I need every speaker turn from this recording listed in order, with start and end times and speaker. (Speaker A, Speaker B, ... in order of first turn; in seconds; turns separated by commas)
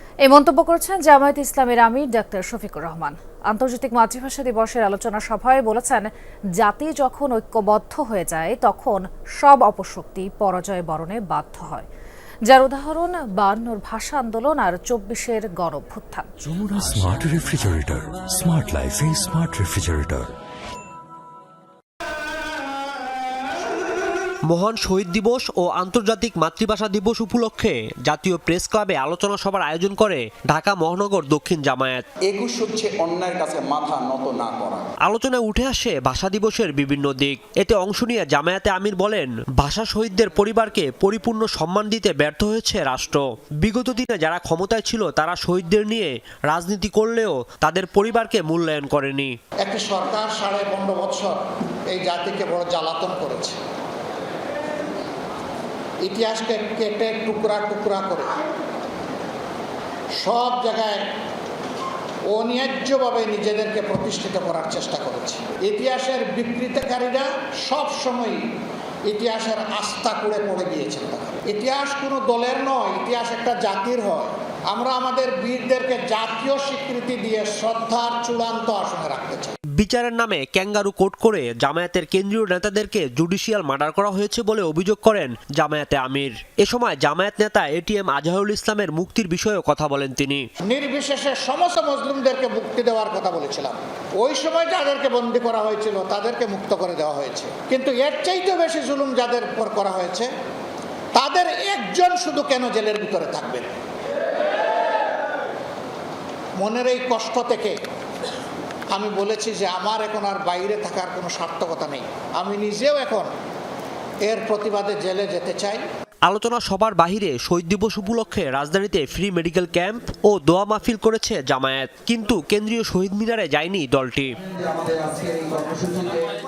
Speaker A: 0.2-11.9, Speaker A: 12.5-16.3, Speaker B: 16.5-20.3, Speaker C: 24.5-32.0, Speaker D: 32.3-34.9, Speaker C: 35.0-49.3, Speaker E: 49.6-51.4, Speaker E: 51.9-53.6, Speaker E: 56.0-58.3, Speaker E: 60.2-61.1, Speaker E: 62.3-68.4, Speaker E: 69.1-79.5, Speaker C: 79.8-90.5, Speaker E: 90.7-100.3, Speaker E: 101.2-103.7, Speaker E: 106.6-107.7, Speaker E: 108.9-113.3, Speaker E: 114.2-115.8, Speaker C: 116.3-124.3, Speaker D: 124.6-126.3